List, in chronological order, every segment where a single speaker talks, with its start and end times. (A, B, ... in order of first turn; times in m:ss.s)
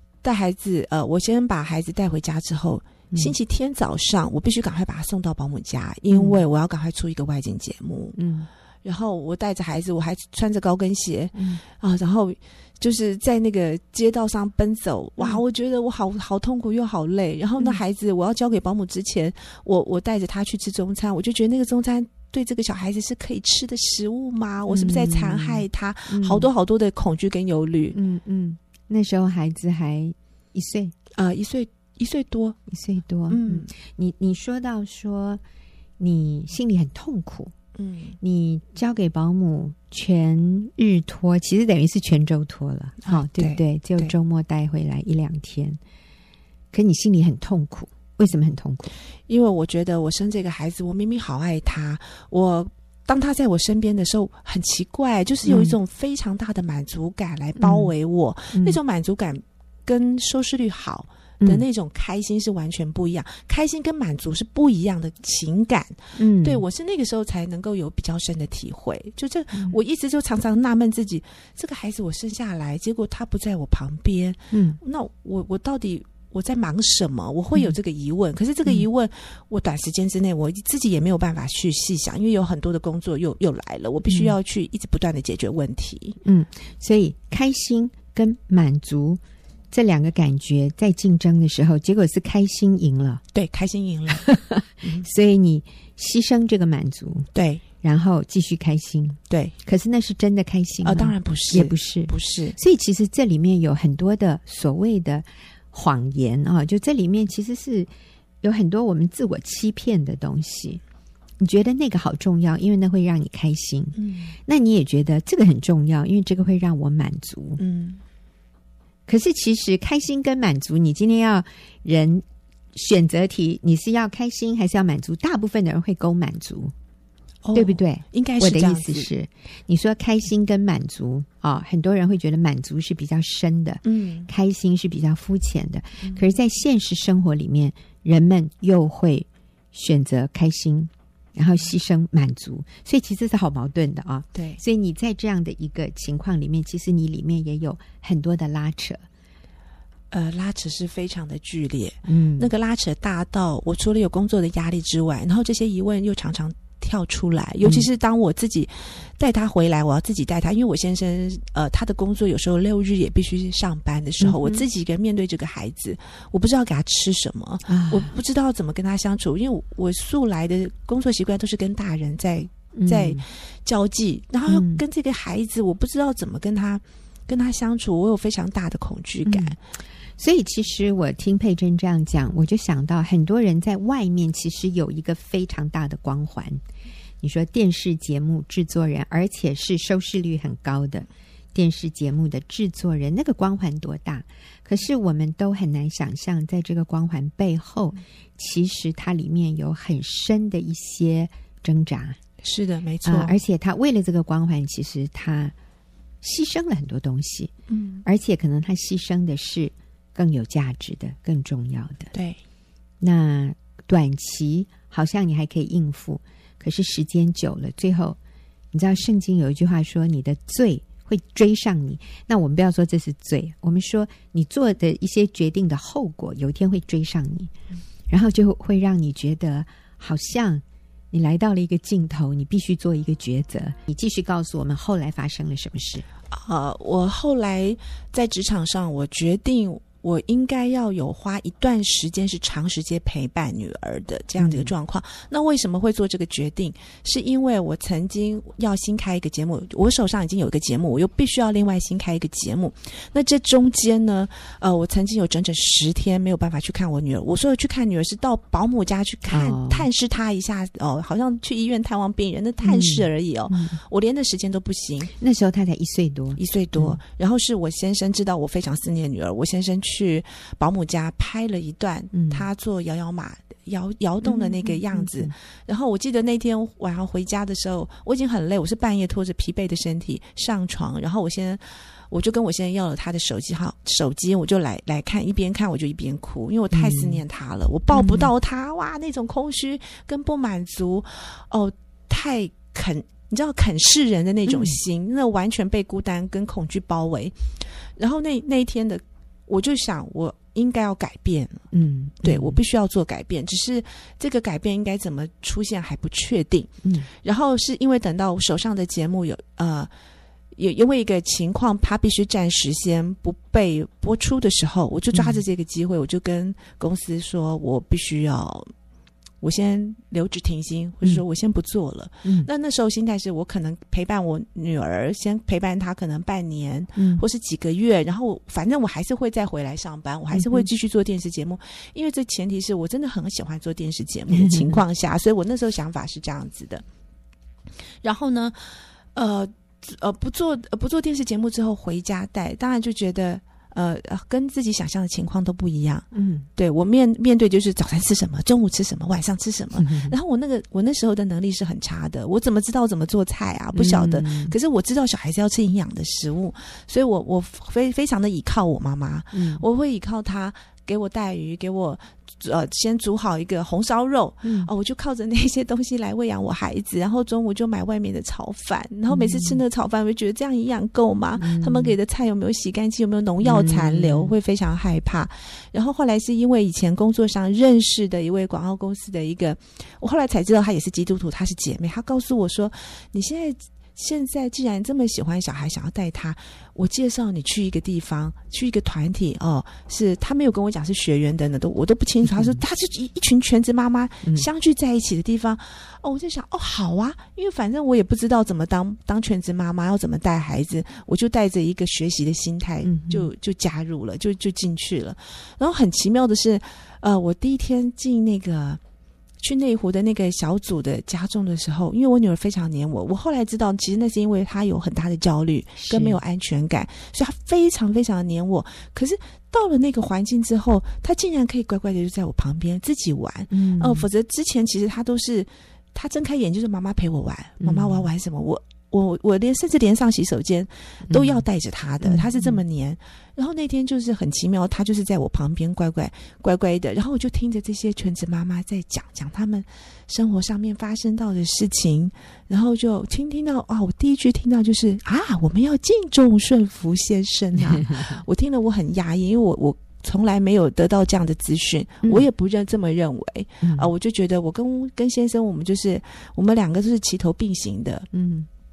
0:00.2-0:08.2 A
0:06.1-0:06.4 B
0:08.2-0:08.5 B
0:08.8-0:28.0 A
0:11.4-0:11.6 B
0:24.7-0:26.5 B
0:27.9-0:31.0 B
0:31.2-0:32.6 A
0:32.7-0:35.4 B
0:33.3-0:33.7 A
0:36.0-0:37.5 B
0:37.8-0:38.2 A
0:38.2-0:45.8 B
0:43.0-0:44.1 A
0:46.7-0:48.9 B
0:49.3-1:26.2 A
0:55.4-0:55.8 B
0:57.6-0:57.9 B
0:58.5-0:58.8 B
1:06.2-1:06.6 B
1:14.5-1:14.8 B
1:24.1-1:24.4 B
1:26.2-1:29.2 B
1:29.7-1:33.2 B
1:33.3-1:34.2 A
1:34.1-1:37.3 B
1:37.4-1:37.6 A
1:37.8-1:47.9 B
1:39.3-1:39.6 A
1:40.8-1:42.6 A
1:48.4-1:50.8 B
1:51.4-1:57.6 B
1:54.0-1:54.3 A
1:57.6-1:58.0 A
1:59.1-2:06.7 B
2:07.4-2:09.1 A
2:07.5-2:29.0 B
2:13.8-2:14.3 A
2:16.0-2:16.4 A
2:24.4-2:24.6 A
2:30.1-2:59.6 A
2:32.1-2:32.5 B
2:44.2-2:44.6 B
2:47.7-2:48.1 B
2:52.7-2:53.2 B
2:54.5-2:54.8 B
2:59.3-2:59.6 B
3:00.2-3:06.6 B
3:07.2-3:22.2 B
3:22.4-3:23.4 A
3:23.0-3:25.5 B
3:26.2-3:27.5 B
3:27.7-3:28.0 A
3:28.0-3:32.1 B
3:32.1-3:32.4 A
3:33.0-3:38.2 B
3:38.7-3:47.5 B
3:48.1-3:56.1 B
3:56.3-4:25.1 A
4:04.4-4:04.7 B
4:19.3-4:19.9 B
4:22.6-4:23.8 B
4:25.2-4:27.0 B
4:26.4-5:01.7 A
4:32.1-4:32.5 B
4:34.2-4:35.3 B
4:46.7-4:47.2 B
4:47.9-4:48.3 B
4:54.5-4:54.8 B
5:01.7-5:02.6 B
5:02.2-5:09.9 A
5:06.8-5:07.1 B
5:10.6-5:18.7 A
5:15.1-5:15.4 B
5:19.4-5:36.8 A
5:22.2-5:22.5 B
5:27.0-5:27.2 B
5:30.3-5:30.7 B
5:34.3-5:34.8 B
5:38.0-6:48.8 A
5:46.1-5:46.5 B
5:49.8-5:50.2 B
5:53.7-5:54.6 B
5:59.3-5:59.6 B
6:04.4-6:04.7 B
6:09.1-6:09.6 B
6:11.4-6:12.0 B
6:13.4-6:14.3 B
6:32.3-6:32.6 B
6:42.8-6:43.3 B
6:49.4-7:38.1 A
6:55.8-6:56.2 B
7:03.5-7:04.1 B
7:07.6-7:08.1 B
7:11.1-7:11.4 B
7:12.0-7:12.6 B
7:27.6-7:28.2 B
7:33.6-7:33.9 B
7:38.1-7:38.5 B